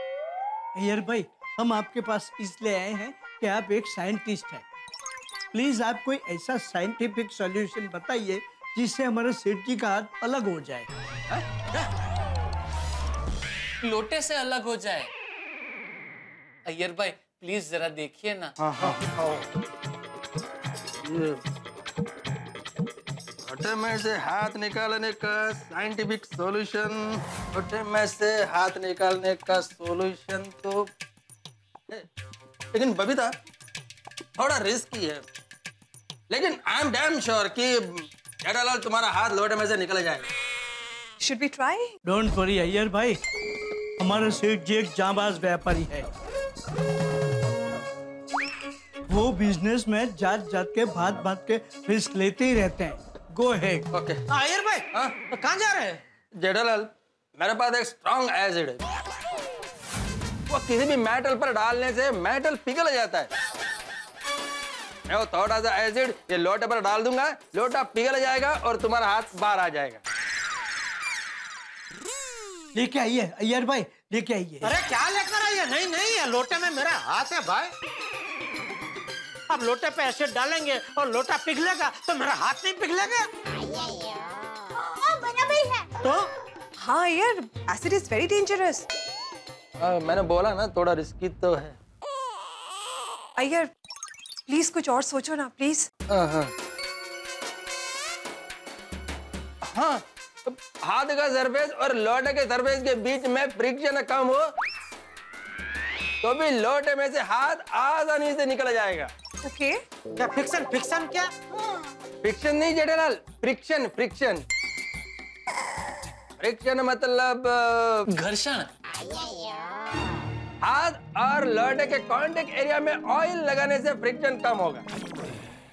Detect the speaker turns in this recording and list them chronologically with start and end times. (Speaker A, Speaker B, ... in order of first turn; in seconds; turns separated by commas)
Speaker A: 0.8-4.6, Speaker A: 5.5-10.9, Speaker B: 13.8-15.1, Speaker B: 16.7-18.6, Speaker C: 21.1-21.4, Speaker C: 23.4-30.9, Speaker C: 32.7-33.4, Speaker C: 34.4-35.2, Speaker C: 36.3-40.3, Speaker D: 41.2-42.0, Speaker A: 42.0-43.2, Speaker A: 44.0-46.1, Speaker A: 49.1-53.9, Speaker C: 53.9-54.2, Speaker E: 54.3-56.0, Speaker C: 56.3-58.8, Speaker C: 60.5-63.3, Speaker C: 65.1-70.0, Speaker A: 72.7-74.7, Speaker E: 74.6-77.7, Speaker E: 79.5-83.3, Speaker F: 83.6-85.9, Speaker E: 86.0-86.3, Speaker D: 86.8-88.9, Speaker C: 89.8-91.8, Speaker D: 93.4-93.7, Speaker D: 94.5-95.9, Speaker C: 96.1-96.5, Speaker C: 99.6-104.5, Speaker C: 106.2-109.1, Speaker D: 109.4-109.8, Speaker E: 110.2-111.3, Speaker C: 112.2-114.4, Speaker C: 116.4-118.1, Speaker B: 118.1-118.7, Speaker C: 120.6-124.8